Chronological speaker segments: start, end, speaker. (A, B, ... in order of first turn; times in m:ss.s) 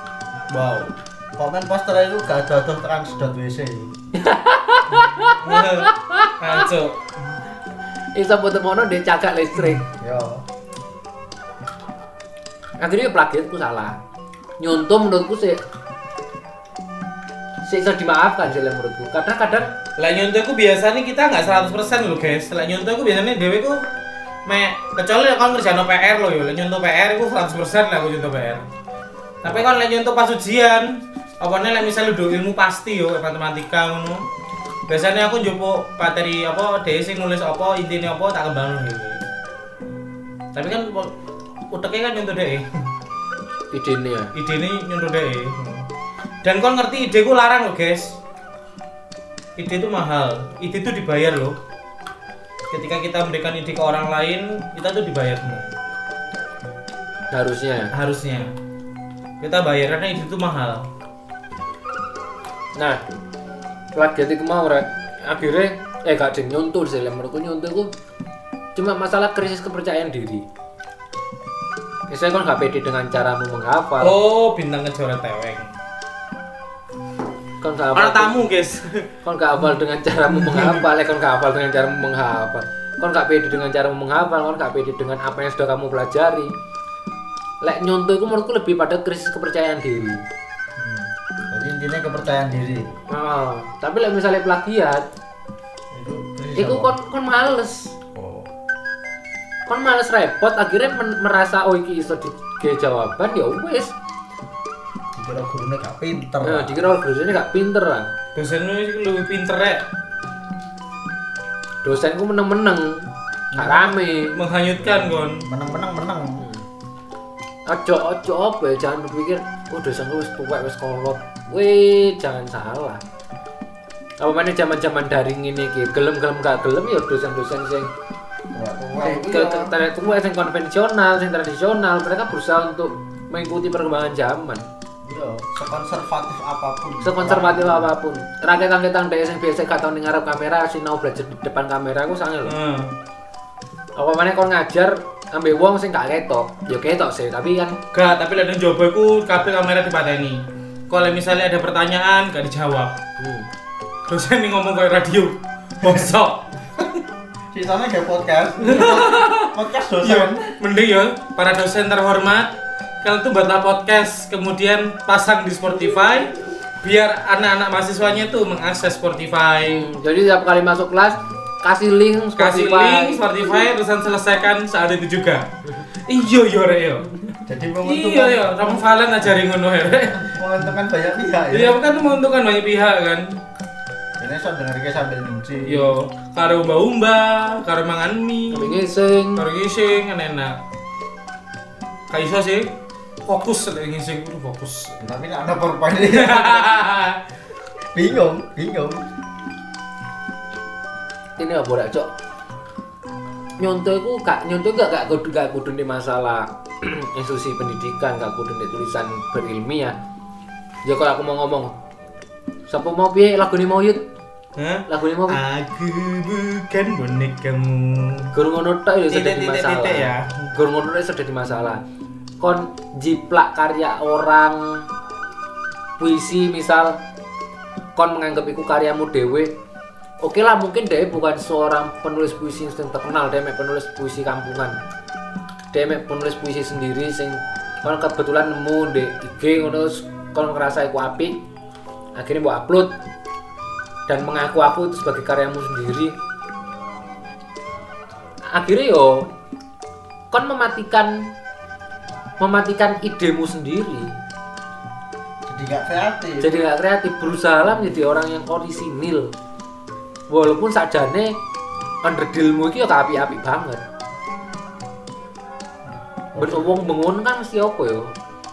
0:00.5-0:03.9 A
0:04.1-0:06.6 B
0:05.4-0:07.1 C
0:08.1-0:09.8 B
0:09.8-0:10.4 A
0:12.8-0:14.0 B
0:14.6-0:15.6 B
0:17.6-0:19.8 B
0:20.0-0:23.8 C
0:24.4-0:28.6 C
0:29.4-0:34.2 C
0:34.9-0:39.2 C
0:40.5-0:41.1 C
0:41.7-0:42.7 C
0:43.7-0:44.3 B
0:44.3-0:45.9 C
0:46.4-0:48.2 C
0:49.6-0:51.6 C
0:52.7-0:55.7 C
0:57.3-0:57.9 B
0:57.9-0:58.5 C
0:59.4-1:00.9 C
1:03.9-1:07.9 B
1:08.8-1:10.4 B
1:12.1-1:14.2 B
1:14.0-1:15.7 C
1:17.6-1:18.5 B
1:17.9-1:19.1 C
1:19.2-1:26.5 B
1:20.3-1:20.8 C
1:27.6-1:30.2 B
1:30.8-1:32.9 A
1:33.1-1:35.0 B
1:35.9-1:36.9 A
1:36.6-1:38.0 B
1:38.1-1:38.5 A
1:39.6-1:43.9 B
1:45.2-1:46.9 A
1:46.4-1:48.1 B
1:48.3-1:49.8 C
1:51.8-1:54.4 B
1:53.5-1:55.5 C
1:55.4-1:56.4 A
1:56.4-1:56.6 B
1:57.7-2:03.0 B
2:04.2-2:07.9 B
2:08.5-2:09.7 A
2:09.0-2:14.6 B
2:15.0-2:17.9 A
2:17.0-2:22.5 B
2:22.4-2:22.9 C
2:24.0-2:27.8 B
2:27.9-2:33.0 C
2:33.2-2:33.5 B
2:34.1-2:36.9 C
2:35.8-2:36.1 A
2:37.5-2:40.4 A
2:38.6-2:49.9 C
2:49.6-2:53.3 B
2:52.4-3:00.4 C
2:57.4-2:58.8 A
3:00.1-3:01.8 A
3:01.5-3:03.4 C
3:04.2-3:05.9 A
3:05.6-3:08.8 C
3:08.5-3:09.4 B
3:09.4-3:10.6 C
3:12.1-3:12.7 C
3:13.2-3:15.0 C
3:15.0-3:16.7 A
3:16.0-3:17.2 C
3:17.9-3:19.1 A
3:21.4-3:22.1 B
3:23.6-3:29.9 B
3:30.8-3:31.7 B
3:32.7-3:34.0 B
3:34.6-3:38.3 C
3:34.9-3:35.4 B
3:38.3-3:41.8 B
3:39.1-3:40.5 C
3:42.4-3:44.8 B
3:46.0-3:47.0 B
3:48.0-3:49.5 B
3:50.2-3:54.8 B
3:55.7-4:01.4 B
4:02.2-4:02.9 B
4:04.1-4:06.1 B
4:08.5-4:09.3 B
4:10.3-4:11.3 B
4:12.4-4:14.1 B
4:15.4-4:16.5 A
4:16.4-4:19.3 B
4:20.3-4:21.4 B
4:22.0-4:23.8 B
4:25.9-4:26.9 A
4:26.4-4:28.1 B